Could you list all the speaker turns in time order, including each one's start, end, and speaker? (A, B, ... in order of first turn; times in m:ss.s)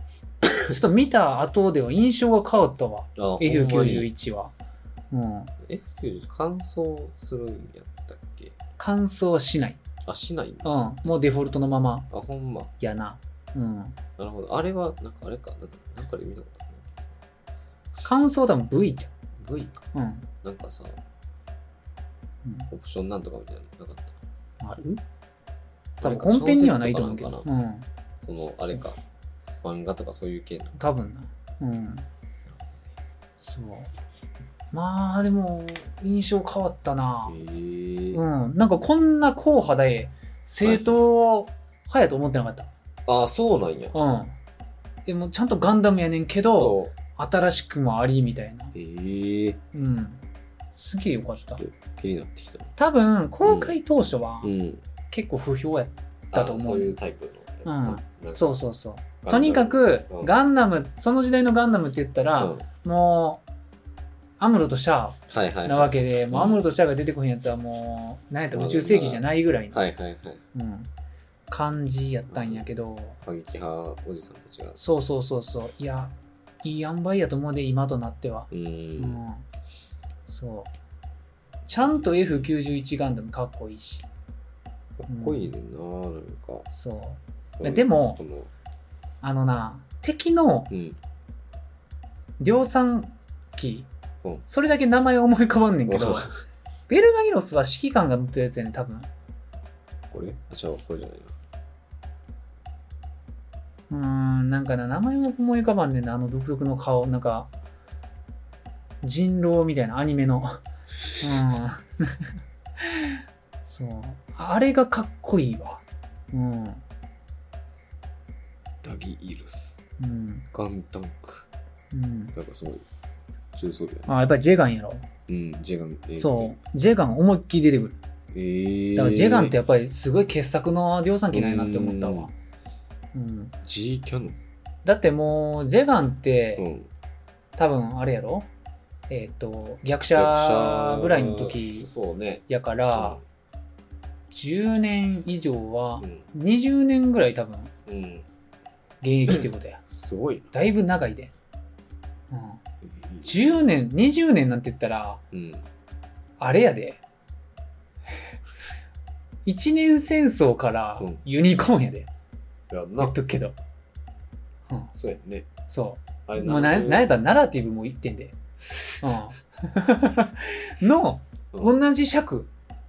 0:00.6-0:04.5 A
0:03.2-0:04.1 B
0:05.1-0:05.5 A
0:05.6-0:08.6 B
0:08.8-0:09.8 A
0:10.0-0:11.1 B
0:10.6-0:12.1 A
0:12.1-0:12.7 B
0:12.8-0:14.0 A
0:14.2-0:17.0 B
0:18.0-0:19.1 A
0:19.4-0:19.9 B
0:19.9-0:20.3 A
0:20.4-0:21.0 B
0:22.4-0:22.7 A
0:22.7-0:24.2 B
0:24.6-0:25.0 A
0:26.0-0:27.5 B
0:26.0-0:27.9 A
0:28.2-0:29.0 B
0:29.6-0:30.8 B
0:30.8-0:32.1 A
0:33.4-0:33.9 A
0:34.7-0:37.4 A
0:37.3-0:38.2 B
0:38.1-0:42.7 A
0:40.6-0:41.0 B
0:43.1-0:44.0 B
0:43.9-0:44.4 A
0:45.1-0:48.7 A
0:46.6-0:47.0 B
0:48.7-0:49.6 B
0:49.7-0:50.2 A
0:50.7-0:51.6 A
0:51.6-0:52.7 B
0:52.8-0:54.5 A
0:53.4-0:53.8 B
0:54.4-0:54.8 B
0:55.1-0:57.0 A
0:56.3-0:58.6 B
0:57.6-1:03.4 A
0:59.2-1:00.3 B
1:02.4-1:02.6 B
1:04.4-1:09.8 A
1:05.3-1:06.7 B
1:08.5-1:10.4 B
1:10.5-1:10.9 A
1:11.5-1:13.2 A
1:12.3-1:12.7 B
1:13.2-1:14.8 B
1:14.8-1:19.4 A
1:18.5-1:19.2 B
1:20.3-1:20.7 A
1:21.7-1:22.5 B
1:21.7-1:24.1 A
1:25.0-1:26.7 B
1:25.1-1:25.5 A
1:26.7-1:28.2 A
1:27.6-1:28.5 B
1:29.2-1:30.7 A
1:30.7-1:31.0 B
1:32.4-1:33.9 A
1:34.5-1:36.3 A
1:35.9-1:36.3 B
1:36.9-1:39.1 A
1:40.1-1:41.4 B
1:43.9-1:47.5 A
1:49.0-1:50.6 A
1:51.2-1:56.8 A
1:58.8-1:59.8 B
2:00.0-2:00.5 A
2:00.5-2:01.5 B
2:01.9-2:02.3 A
2:02.3-2:02.8 B
2:03.5-2:04.1 B
2:04.1-2:05.1 A
2:05.3-2:06.6 B
2:06.2-2:08.0 A
2:08.3-2:09.6 B
2:09.0-2:12.3 A
2:11.3-2:12.3 B
2:13.1-2:13.6 A
2:13.6-2:14.4 B
2:14.8-2:16.7 A
2:16.6-2:16.9 B
2:17.6-2:18.5 A
2:19.1-2:21.9 A
2:20.2-2:23.2 B
2:22.5-2:23.2 A
2:24.3-2:27.7 A
2:27.9-2:28.3 B
2:29.0-2:29.8 A
2:29.3-2:30.5 B
2:30.5-2:31.3 A
2:32.3-2:32.6 A
2:32.8-2:33.6 B
2:33.2-2:35.2 A
2:35.3-2:35.7 B
2:36.4-2:37.0 A
2:39.5-2:42.1 A
2:42.7-2:43.2 B
2:43.0-2:43.6 A
2:45.0-2:45.5 B
2:45.7-2:48.4 A
2:46.3-2:47.2 B
2:49.0-2:52.5 A